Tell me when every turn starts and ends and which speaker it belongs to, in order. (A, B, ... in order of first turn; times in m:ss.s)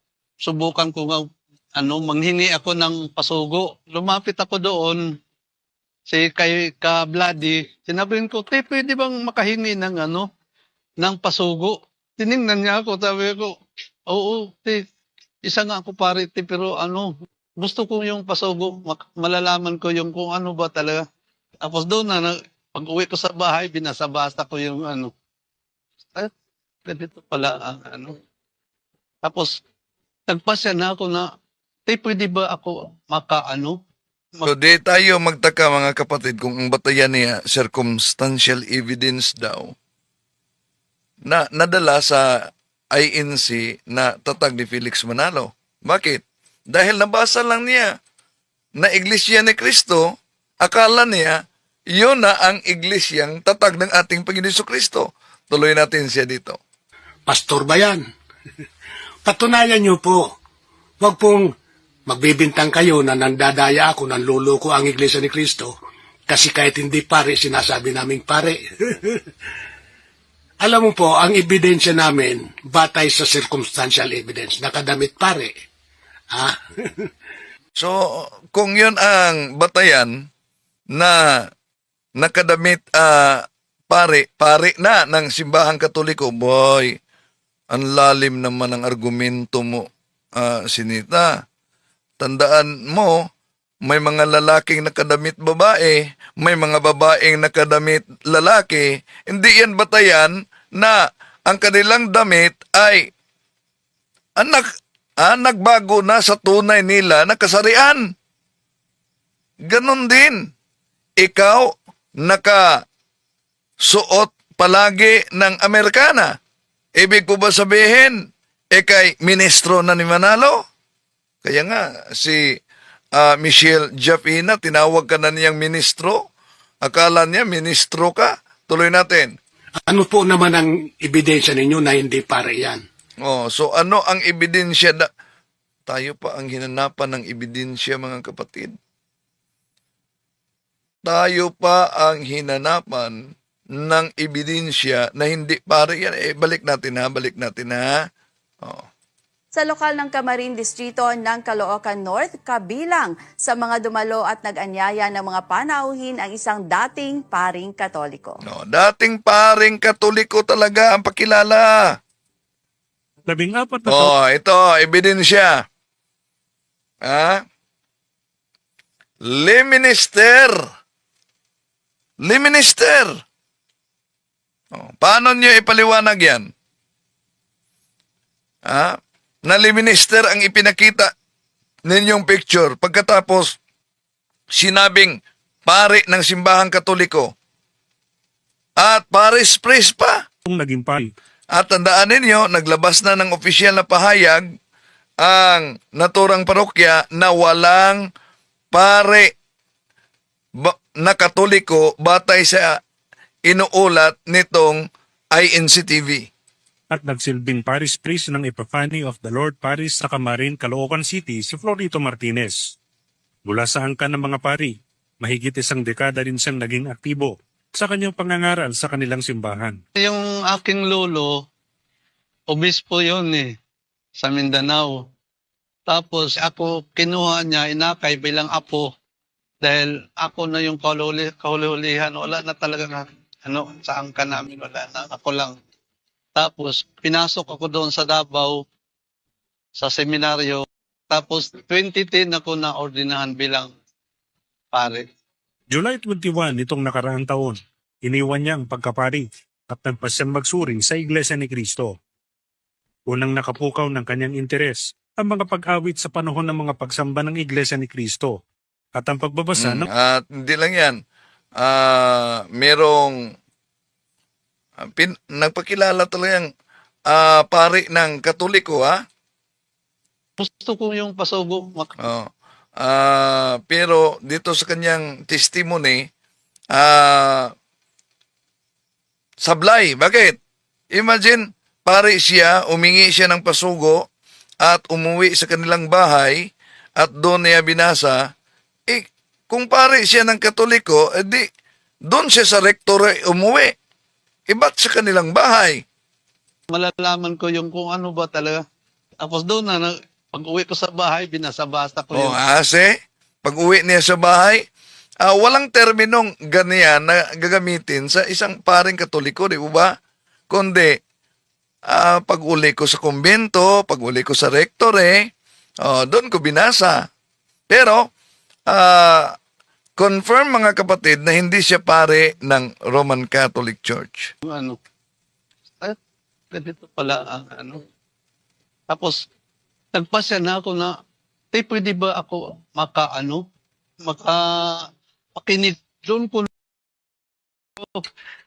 0:00.4-0:05.0 A
0:06.1-0:10.3 A
0:11.0-0:13.6 A
0:14.1-0:14.8 A
0:15.4-0:21.0 A
0:21.6-0:25.1 A
0:26.9-0:28.2 A
0:29.2-0:29.6 A
0:30.3-0:31.3 A
0:31.9-0:33.8 A
0:34.4-0:39.8 B
0:41.3-0:48.0 B
0:48.8-0:50.1 B
0:50.6-0:51.4 B
0:51.9-0:56.6 B
0:57.3-0:58.0 C
0:59.2-1:00.2 C
1:01.0-1:01.5 C
1:02.1-1:05.7 C
1:06.3-1:09.2 C
1:10.6-1:15.5 C
1:16.3-1:17.1 C
1:17.8-1:20.1 B
1:21.0-1:21.5 B
1:22.2-1:27.0 B
1:27.7-1:31.3 B
1:32.2-1:33.2 B
1:33.9-1:43.1 B
1:44.4-1:48.1 B
1:49.7-1:50.5 B
1:51.2-1:52.8 B
1:53.8-1:56.4 B
1:57.0-1:58.2 B
1:58.8-2:00.6 B
2:01.4-2:02.6 B
2:03.2-2:06.3 B
2:06.8-2:09.4 B
2:09.9-2:12.8 C
2:13.2-2:15.1 B
2:15.9-2:18.8 B
2:21.0-2:27.9 B
2:28.6-2:28.9 B
2:29.5-2:38.4 D
2:38.4-2:42.0 B
2:43.3-2:44.1 E
2:43.9-2:45.6 B
2:47.0-2:47.4 B
2:49.2-2:50.6 B
2:52.2-2:53.2 B
2:54.7-2:56.5 B
2:58.7-3:01.1 B
3:01.9-3:03.6 B
3:04.5-3:07.3 B
3:08.8-3:10.2 B
3:10.5-3:11.1 E
3:11.5-3:14.5 B
3:15.2-3:18.1 B
3:18.7-3:19.3 B
3:20.6-3:22.8 B
3:23.5-3:26.3 B
3:26.9-3:32.7 E
3:33.5-3:39.8 E
3:40.0-3:41.4 A
3:42.5-3:43.5 A
3:44.2-3:44.9 A
3:45.9-3:48.9 A
3:49.6-3:55.6 A
3:56.4-3:58.6 A
3:59.8-4:03.7 A
4:04.7-4:05.1 A
4:05.7-4:12.0 E
4:13.1-4:18.4 E
4:19.0-4:19.9 E
4:19.6-4:21.0 B
4:21.6-4:23.2 B
4:24.8-4:26.5 B
4:27.1-4:29.0 B
4:30.4-4:32.0 A
4:32.0-4:36.1 B
4:36.7-4:37.5 B
4:39.4-4:40.4 B
4:40.9-4:44.0 B
4:44.6-4:46.5 B
4:47.0-4:48.2 B
4:48.9-4:51.5 B
4:52.1-4:53.7 B
4:54.5-4:55.8 B
4:56.7-4:58.6 A
4:59.2-5:02.4 A
5:02.1-5:04.7 B
5:05.2-5:09.9 B
5:10.5-5:11.0 B
5:11.9-5:15.3 B
5:15.8-5:17.1 B
5:17.7-5:18.1 B
5:18.7-5:19.4 B
5:20.0-5:24.3 B
5:24.4-5:24.8 A
5:26.5-5:27.8 A
5:28.9-5:29.2 A
5:29.9-5:30.9 A
5:31.5-5:33.4 A
5:34.0-5:36.5 A
5:37.8-5:38.1 A